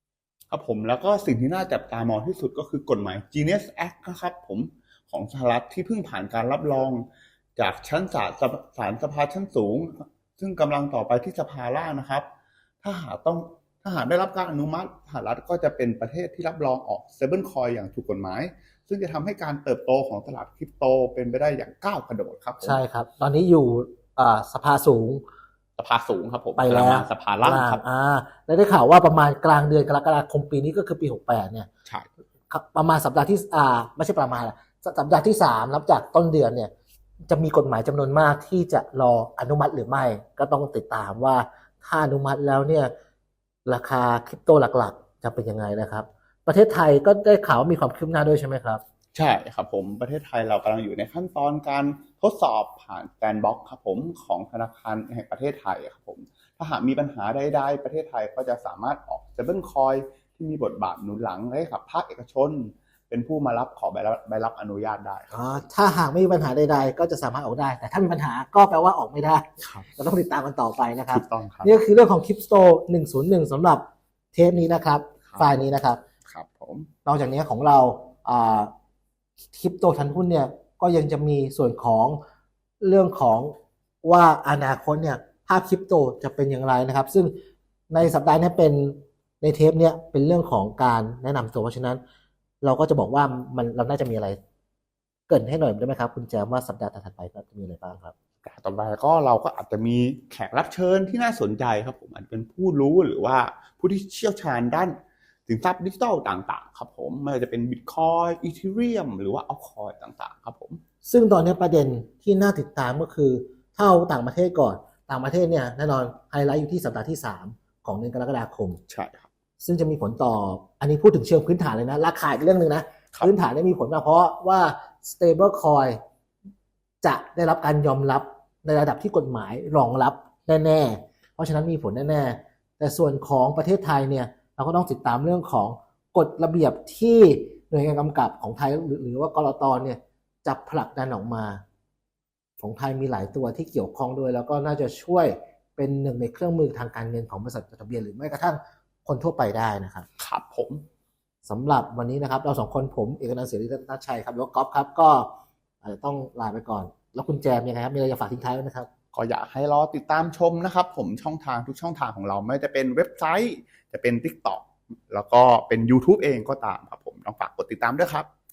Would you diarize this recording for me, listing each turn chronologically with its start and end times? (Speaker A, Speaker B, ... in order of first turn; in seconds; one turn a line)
Speaker A: 0.5-12.2
Speaker A: 12.8-22.8
Speaker B: 22.6-25.2
Speaker A: 25.8-27.8
Speaker B: 26.6-31.7
Speaker B: 32.5-36.7
Speaker B: 37.3-42.9
Speaker B: 43.6-48.8
Speaker A: 49.1-65.6
Speaker B: 65.3-76.0
Speaker A: 69.6-69.8
Speaker A: 71.1-71.7
Speaker A: 76.2-76.9
Speaker B: 77.0-78.7
Speaker B: 79.5-82.2
Speaker B: 82.8-87.3
Speaker B: 87.9-92.0
Speaker B: 92.6-94.4
Speaker B: 95.3-98.1
Speaker A: 98.4-104.9
Speaker A: 105.5-110.8
Speaker B: 111.0-118.8
Speaker A: 118.9-119.3
Speaker B: 119.6-126.0
Speaker B: 127.0-141.6
Speaker B: 142.6-150.1
Speaker A: 150.2-150.8
Speaker B: 151.4-155.3
Speaker B: 155.8-158.9
Speaker A: 159.1-168.2